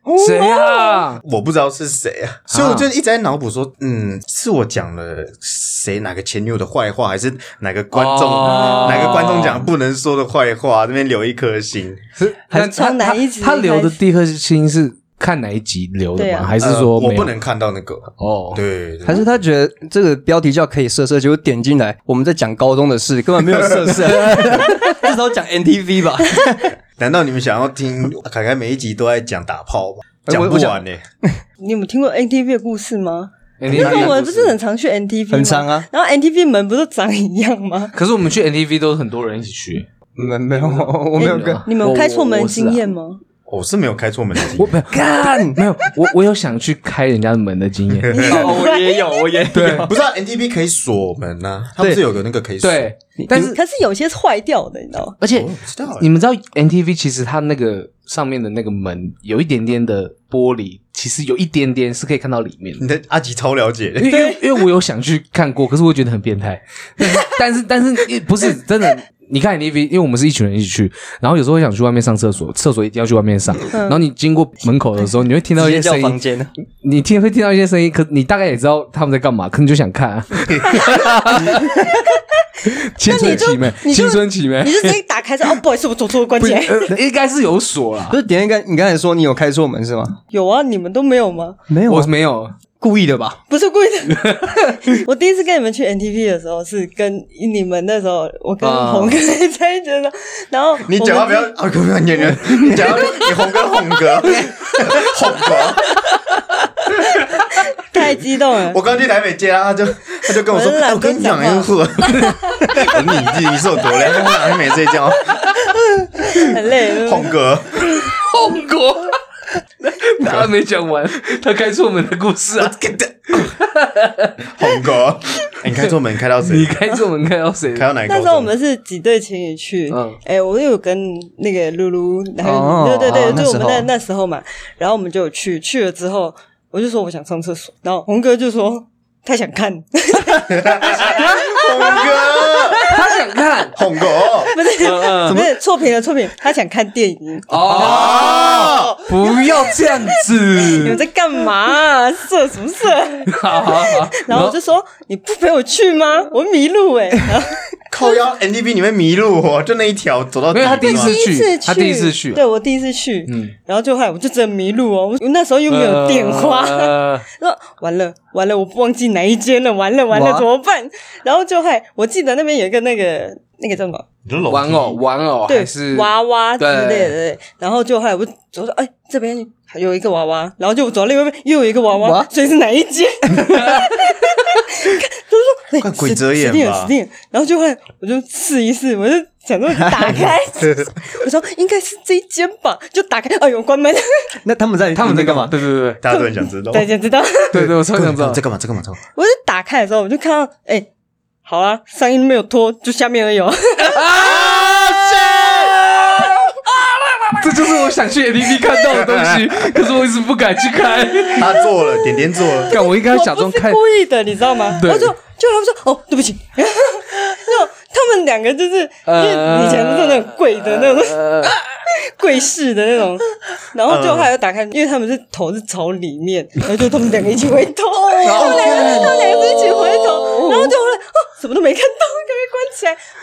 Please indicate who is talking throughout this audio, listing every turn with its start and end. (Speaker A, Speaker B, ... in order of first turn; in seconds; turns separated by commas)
Speaker A: 0.1-1.2, Speaker B: 0.2-1.0, Speaker C: 1.2-12.0, Speaker A: 2.5-2.9, Speaker A: 7.9-9.7, Speaker A: 12.2-17.3, Speaker B: 12.5-14.0, Speaker B: 16.1-16.6, Speaker C: 16.6-19.3, Speaker A: 18.2-18.6, Speaker D: 19.1-26.7, Speaker A: 24.2-24.9, Speaker C: 27.0-31.0, Speaker D: 30.2-31.4, Speaker B: 31.6-37.9, Speaker A: 33.6-34.5, Speaker D: 33.8-34.1, Speaker D: 35.3-35.9, Speaker A: 37.9-39.9, Speaker D: 40.2-41.6, Speaker A: 40.5-42.8, Speaker B: 41.2-43.2, Speaker C: 43.5-44.7, Speaker A: 44.5-48.2, Speaker D: 44.9-45.6, Speaker C: 47.9-48.5, Speaker B: 48.1-49.5, Speaker D: 48.2-49.9, Speaker A: 49.5-49.9, Speaker C: 49.8-52.9, Speaker A: 52.6-53.6, Speaker D: 53.2-53.5, Speaker B: 53.4-55.2, Speaker A: 55.2-62.8, Speaker C: 55.3-56.1, Speaker C: 62.8-64.1, Speaker A: 64.0-76.2, Speaker B: 64.1-64.4, Speaker B: 73.7-74.0, Speaker D: 75.5-76.5, Speaker A: 76.8-81.7, Speaker B: 80.8-81.0, Speaker A: 82.6-85.0, Speaker B: 83.0-86.9, Speaker A: 86.4-88.2, Speaker D: 88.1-90.2, Speaker B: 90.3-91.6, Speaker D: 91.7-92.1, Speaker A: 91.9-92.5, Speaker D: 92.8-93.4, Speaker B: 93.5-101.5, Speaker A: 94.1-94.6, Speaker A: 98.6-99.2, Speaker C: 100.8-106.0, Speaker B: 102.7-103.3, Speaker B: 107.7-108.8, Speaker C: 108.7-115.5, Speaker B: 110.4-112.3, Speaker B: 115.9-117.3, Speaker C: 116.9-117.9, Speaker A: 118.1-119.2, Speaker A: 119.8-122.8, Speaker C: 122.6-123.5, Speaker A: 123.3-124.5, Speaker C: 124.4-126.8, Speaker A: 126.4-127.9, Speaker C: 127.7-128.5, Speaker B: 128.1-143.1, Speaker A: 129.9-130.2, Speaker D: 132.4-133.9, Speaker A: 133.1-133.4, Speaker C: 140.4-142.9, Speaker A: 142.8-143.8, Speaker C: 143.7-144.5, Speaker B: 144.0-157.7, Speaker A: 144.8-145.4, Speaker A: 147.5-151.0, Speaker C: 147.7-149.0, Speaker A: 153.3-154.6, Speaker C: 157.9-161.2, Speaker A: 160.5-162.4, Speaker B: 160.7-174.0, Speaker A: 163.3-163.5, Speaker A: 165.7-167.2, Speaker D: 170.1-170.4, Speaker C: 174.2-175.0, Speaker A: 174.5-177.2, Speaker B: 175.5-194.3, Speaker D: 182.0-182.3, Speaker C: 185.8-186.9, Speaker D: 194.4-195.5, Speaker A: 194.9-196.0, Speaker C: 196.0-196.9, Speaker B: 196.1-197.7, Speaker A: 197.5-198.4, Speaker C: 197.6-199.0, Speaker B: 199.2-200.9, Speaker B: 201.4-204.3, Speaker A: 203.9-205.6, Speaker C: 204.2-205.8, Speaker B: 206.0-206.3, Speaker A: 207.3-211.6, Speaker C: 208.9-209.6, Speaker C: 211.3-212.7, Speaker B: 211.4-233.0, Speaker A: 212.7-213.8, Speaker A: 214.8-215.1, Speaker A: 219.1-221.6, Speaker C: 223.9-224.3, Speaker C: 228.3-229.2, Speaker D: 228.3-229.2, Speaker A: 228.3-230.7